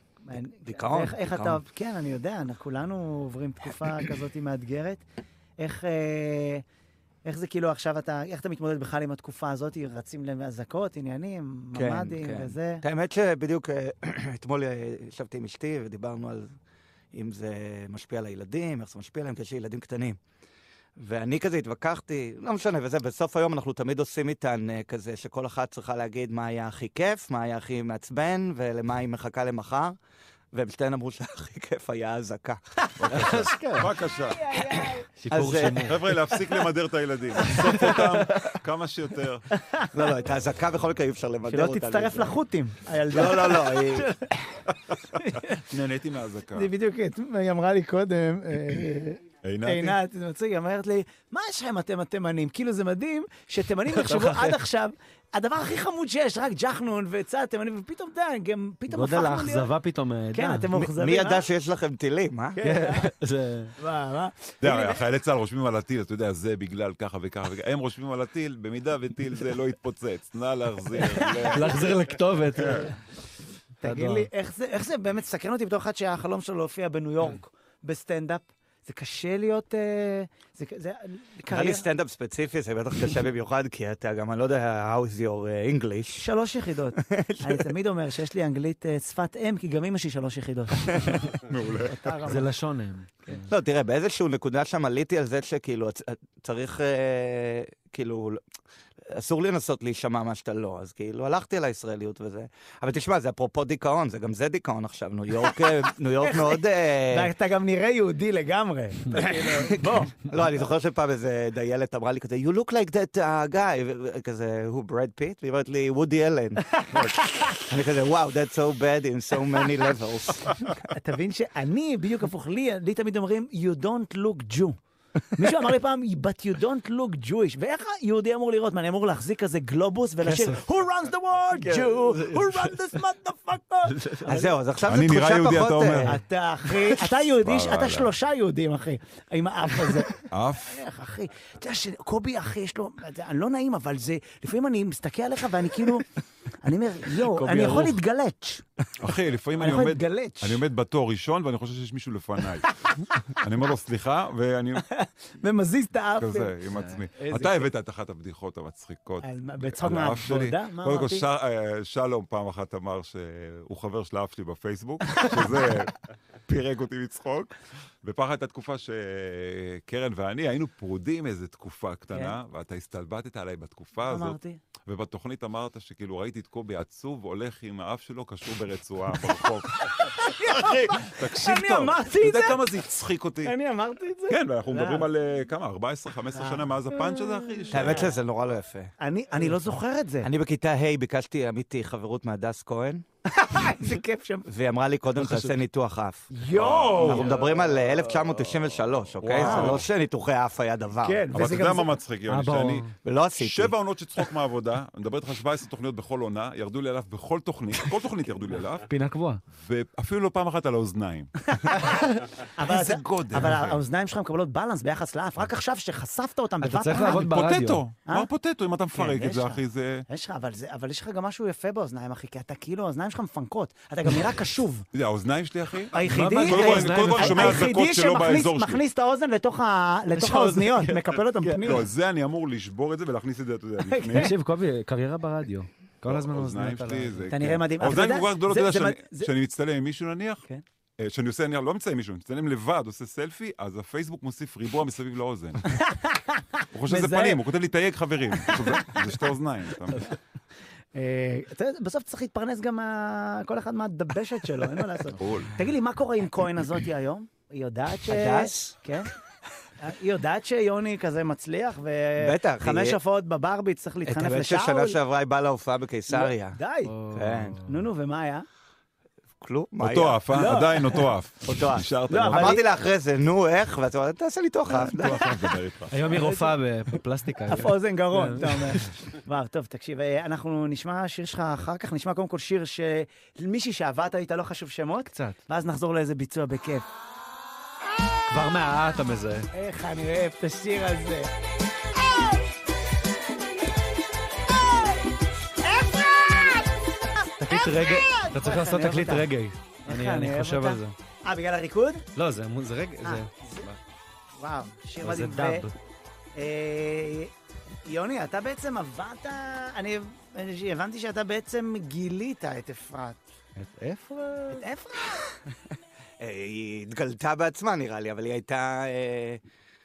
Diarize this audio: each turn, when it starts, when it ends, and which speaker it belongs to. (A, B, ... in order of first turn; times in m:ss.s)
0:00.2-0:05.0 A
0:00.6-0:01.6 B
0:05.6-0:06.6 A
0:07.2-0:12.8 A
0:11.7-0:16.5 B
0:17.1-0:20.2 B
0:21.0-0:30.0 B
0:30.5-0:32.6 B
0:33.0-0:34.4 C
0:33.1-0:33.9 D
0:34.3-0:35.0 A
0:34.5-0:35.9 B
0:35.2-0:36.0 D
0:35.8-0:39.4 C
0:37.8-0:38.2 D
0:39.6-0:39.8 A
0:39.9-0:42.4 B
0:41.5-0:44.3 A
0:43.1-0:44.2 B
0:45.1-0:45.6 A
0:45.5-0:46.7 C
0:46.5-0:59.7 A
0:49.4-0:50.0 C
0:53.9-0:54.6 D
0:58.9-1:00.7 D
1:00.3-1:01.4 A
1:00.7-1:02.6 B
1:02.6-1:03.1 A
1:02.6-1:03.7 D
1:03.8-1:05.0 A
1:04.6-1:11.9 C
1:11.0-1:11.7 A
1:11.5-1:12.9 D
1:12.5-1:12.9 C
1:13.8-1:21.8 A
1:13.8-1:14.3 D
1:21.5-1:26.3 B
1:26.2-1:32.5 A
1:27.0-1:27.7 B
1:31.3-1:32.1 C
1:32.2-1:33.4 D
1:33.5-1:38.4 B
1:39.0-1:47.3 B
1:46.2-1:50.1 A
1:49.1-2:00.8 B
1:56.7-1:57.6 A
2:00.9-2:04.8 A
2:05.3-2:14.5 A
2:10.2-2:10.6 D
2:11.5-2:12.9 D
2:14.0-2:14.2 D
2:14.2-2:16.2 B
2:14.8-2:16.2 C
2:16.0-2:26.1 A
2:17.3-2:18.1 C
2:20.3-2:20.8 C
2:26.6-2:28.6 A
2:27.2-2:28.0 D
2:29.0-2:34.9 C
2:29.6-2:30.6 A
2:34.9-2:36.6 A
2:36.2-2:45.9 C
2:36.7-2:37.6 D
2:39.2-2:41.2 A
2:46.4-3:03.5 C
2:52.1-2:52.4 A
2:54.0-2:54.6 A
3:00.0-3:02.8 A
3:03.4-3:05.1 A
3:04.3-3:08.1 C
3:06.3-3:07.3 A
3:07.7-3:08.9 B
3:07.8-3:08.0 A
3:09.0-3:10.3 A
3:10.2-3:13.0 B
3:13.3-3:14.4 A
3:14.5-3:16.3 B
3:15.2-3:15.6 D
3:16.3-3:17.3 A
3:16.5-3:17.3 C
3:17.0-3:21.3 B
3:17.1-3:17.6 D
3:19.2-3:19.9 C
3:19.4-3:19.8 A
3:21.0-3:21.9 A
3:21.3-3:28.9 C
3:22.3-3:22.9 D
3:23.0-3:23.7 B
3:28.9-3:29.4 D
3:29.5-3:32.0 C
3:31.5-3:37.3 A
3:32.6-3:33.8 C
3:36.6-3:37.8 D
3:37.0-3:40.0 C
3:38.9-3:44.8 A
3:44.9-3:48.8 C
3:45.9-3:51.8 A
3:46.1-3:47.7 D
3:50.2-3:51.7 D
3:51.6-3:54.3 C
3:53.8-3:54.3 A
3:54.1-3:57.3 D
3:56.0-4:00.4 C
3:57.3-3:59.3 A
4:01.0-4:05.8 C
4:05.7-4:07.4 A
4:06.7-4:10.1 C
4:08.4-4:09.0 A
4:10.9-4:19.1 A
4:15.2-4:15.6 C
4:18.1-4:18.7 B
4:19.8-4:25.0 A
4:22.2-4:23.0 B
4:24.0-4:26.6 B
4:26.1-4:27.0 A
4:26.9-4:27.6 D
4:27.1-4:27.6 B
4:27.6-4:28.4 A
4:29.4-4:30.2 B
4:29.8-4:32.6 C
4:30.3-4:31.1 A
4:31.4-4:35.2 B
4:32.1-4:32.6 A
4:34.7-4:36.1 C
4:35.9-4:38.9 D
4:36.1-4:36.5 A
4:37.5-4:46.8 A
4:48.3-4:49.5 D
4:49.5-4:51.3 A
4:55.6-4:59.3 A
4:57.4-5:00.9 D
4:59.8-5:02.0 A
5:02.2-5:03.8 D
5:03.0-5:03.6 A
5:04.4-5:05.7 A
5:05.0-5:05.7 D
5:06.4-5:07.3 A
5:07.8-5:13.2 A
5:13.6-5:14.6 D
5:14.5-5:15.3 A
5:16.2-5:19.4 B